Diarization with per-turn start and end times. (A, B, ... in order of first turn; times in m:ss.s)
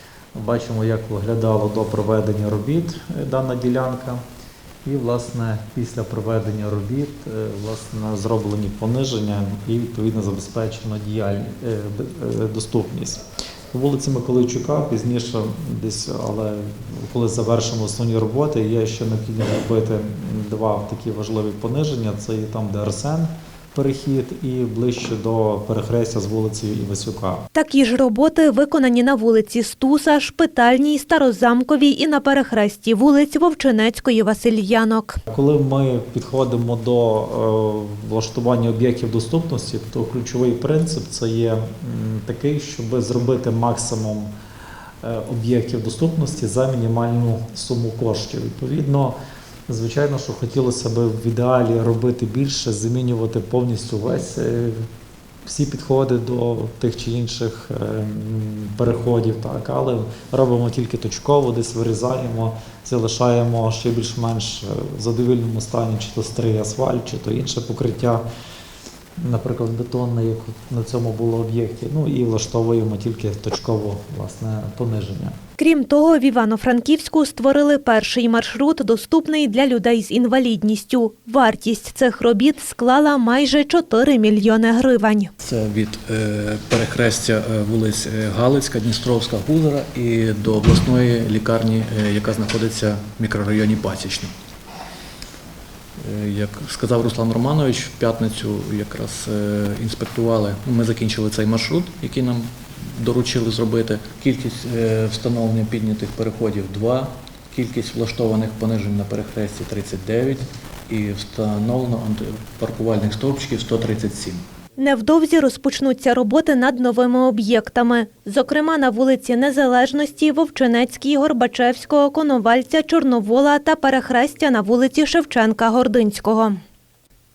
0:00.3-0:04.2 A
0:04.8-0:13.2 A
0:13.7-0:27.4 A
0:27.5-0:35.2 B
0:35.3-0:44.3 A
0:45.0-0:49.2 A
0:49.7-0:54.9 A
0:55.5-1:08.2 A
1:09.2-1:15.3 A
1:15.6-1:25.3 B
1:25.4-1:34.3 C
1:36.0-1:54.4 C
1:54.8-2:06.6 B